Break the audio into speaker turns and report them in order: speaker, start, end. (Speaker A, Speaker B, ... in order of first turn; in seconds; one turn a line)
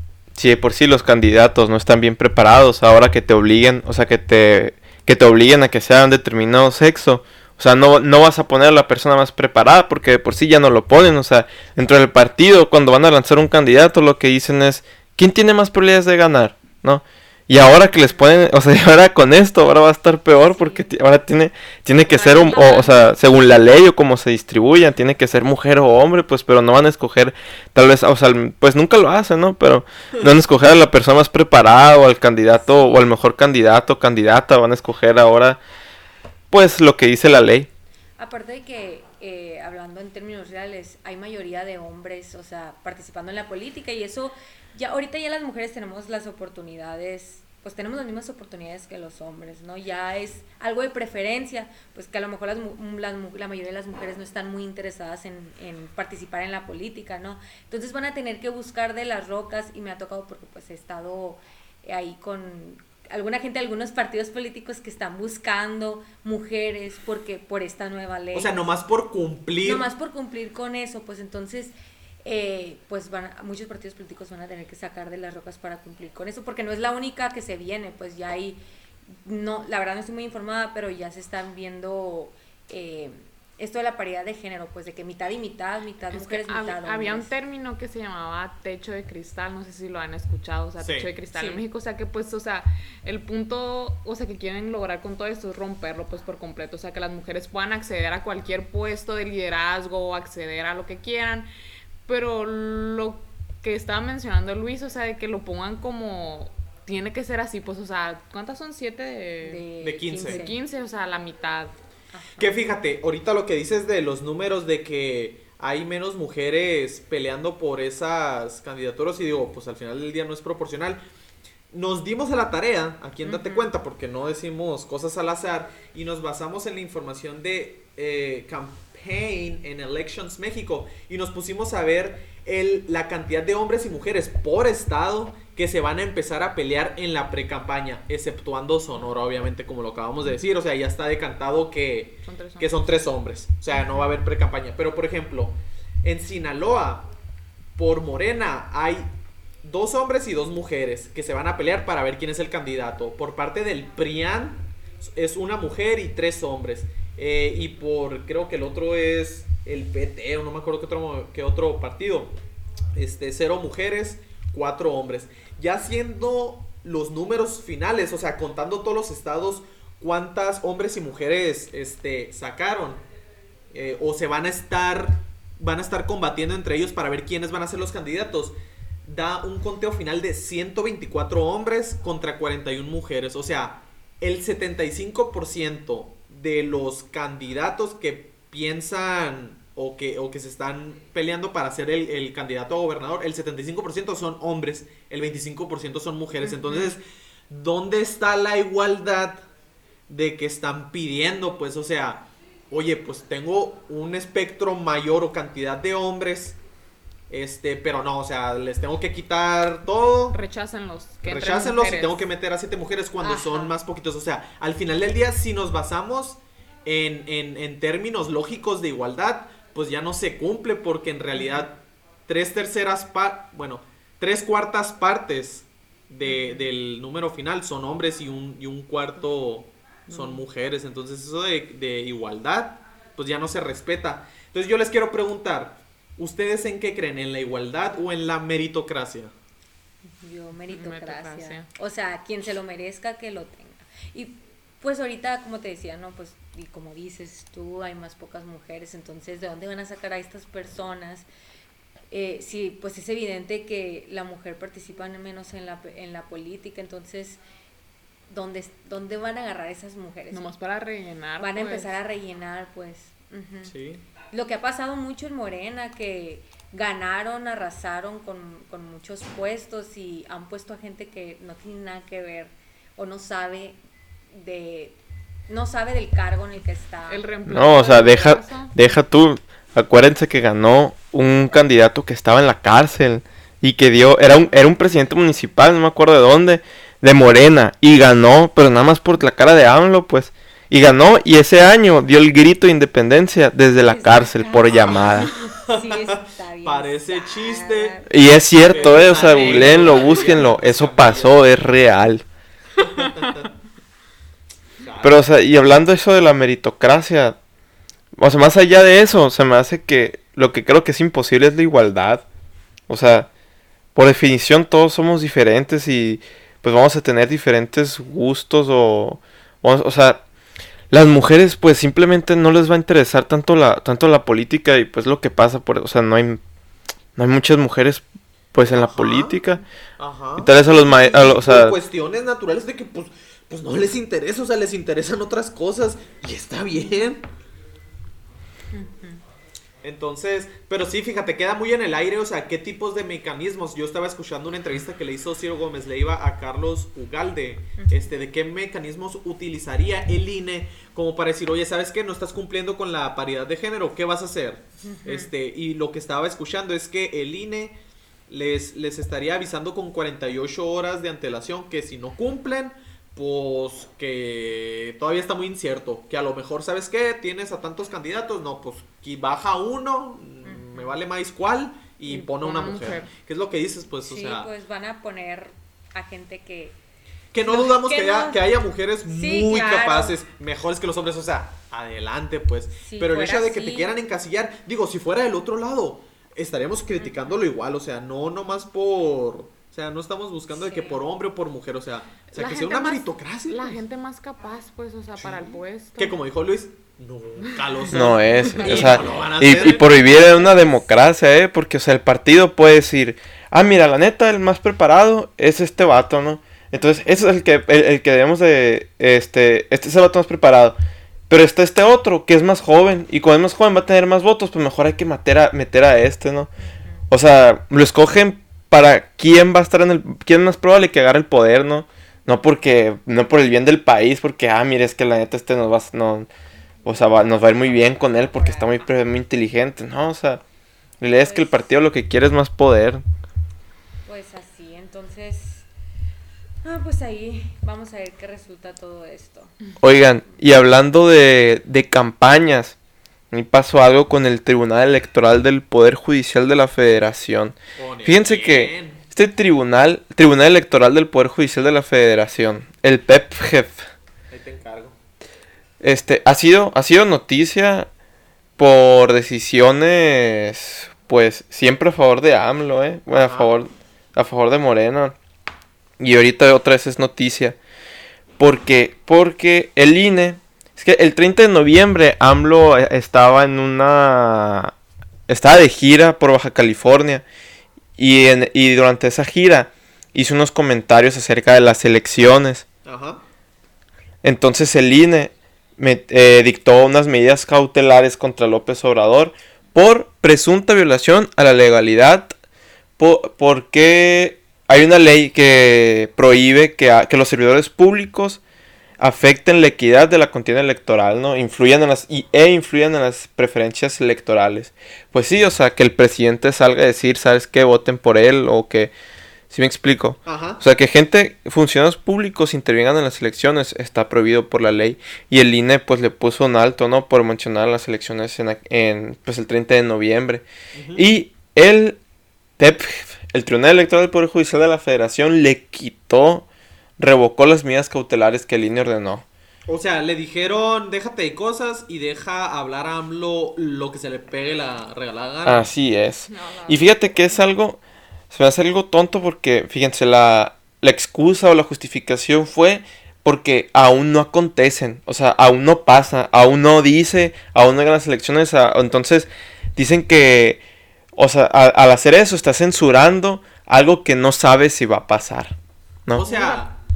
Speaker A: 0.3-35.6
Speaker B: 20.3-20.9
Speaker B: 22.1-23.1
Speaker C: 22.4-22.8
Speaker B: 32.6-33.1
Speaker A: 36.5-37.7
Speaker B: 38.2-68.6
Speaker D: 68.3-69.9
Speaker B: 69.6-78.6
Speaker B: 79.2-87.3
Speaker C: 86.1-101.5
Speaker D: 90.8-91.2
Speaker B: 91.3-91.6
Speaker C: 102.1-109.6
Speaker B: 109.4-110.6
Speaker D: 109.8-110.5
Speaker C: 110.2-111.8
Speaker B: 112.1-112.6
Speaker D: 112.4-121.0
Speaker D: 121.7-147.1
Speaker B: 123.2-123.7
Speaker C: 142.2-143.0
Speaker B: 143.7-144.2
Speaker D: 147.8-162.3
Speaker D: 162.9-173.0
Speaker D: 173.7-199.4
Speaker B: 196.5-196.9
Speaker D: 200.1-206.6
Speaker D: 207.3-210.4
Speaker C: 210.3-212.2
Speaker D: 211.2-239.3
Speaker B: 213.2-213.7
Speaker B: 221.3-221.7
Speaker B: 226.2-226.6
Speaker C: 230.1-230.4
Speaker B: 240.2-251.3
Speaker C: 240.7-241.7
Speaker B: 252.1-257.4
Speaker B: 258.3-260.4
Speaker C: 260.3-262.0
Speaker B: 261.4-263.8
Speaker D: 263.6-264.0
Speaker B: 264.3-273.8
Speaker B: 274.3-277.3
Speaker C: 277.1-278.7
Speaker A: 277.5-295.3
Speaker B: 293.8-300.3
Speaker D: 295.5-298.0
Speaker A: 298.1-302.2
Speaker D: 298.6-301.4
Speaker D: 302.8-303.5
Speaker D: 304.8-305.2
Speaker A: 305.0-307.4
Speaker A: 308.2-312.2
Speaker A: 312.9-313.3
Speaker A: 313.9-320.2
Speaker A: 320.9-326.4
Speaker A: 327.2-328.0
Speaker A: 328.5-329.6
Speaker D: 328.6-329.4
Speaker D: 330.0-337.3
Speaker A: 330.4-331.8
Speaker B: 338.7-339.2
Speaker D: 339.8-374.5
Speaker B: 347.8-348.1
Speaker B: 354.8-355.3
Speaker B: 370.4-371.0
Speaker C: 372.1-373.1
Speaker B: 374.0-376.8
Speaker D: 377.3-393.8
Speaker B: 377.4-378.4
Speaker B: 379.1-380.2
Speaker B: 382.8-383.9
Speaker B: 387.0-387.4
Speaker B: 390.5-391.0
Speaker C: 392.3-396.2
Speaker D: 395.2-399.8
Speaker A: 397.9-410.8
Speaker C: 398.3-398.8
Speaker B: 399.4-400.9
Speaker A: 411.3-416.5
Speaker B: 416.6-417.1
Speaker A: 417.1-426.3
Speaker B: 426.9-429.0
Speaker A: 426.9-430.4
Speaker A: 431.0-433.0
Speaker B: 431.2-431.6
Speaker B: 434.1-435.7
Speaker B: 436.6-440.4
Speaker A: 439.8-442.8
Speaker A: 443.3-453.8
Speaker D: 447.8-449.0
Speaker D: 454.3-455.0
Speaker A: 455.8-457.9
Speaker A: 458.6-465.1
Speaker D: 463.1-463.6
Speaker A: 466.0-467.6
Speaker A: 468.4-474.7
Speaker A: 475.3-477.2
Speaker A: 478.0-482.6
Speaker D: 482.9-483.2
Speaker A: 484.2-492.4
Speaker A: 493.0-498.4
Speaker A: 499.0-508.9
Speaker A: 509.5-522.0
Speaker D: 510.2-510.6
Speaker D: 520.7-521.1
Speaker A: 522.6-526.5
Speaker A: 527.0-529.2
Speaker D: 529.7-535.7
Speaker A: 535.5-537.8
Speaker C: 536.3-537.0
Speaker A: 538.3-550.6
Speaker A: 551.2-555.5
Speaker D: 556.1-556.8
Speaker C: 556.2-556.6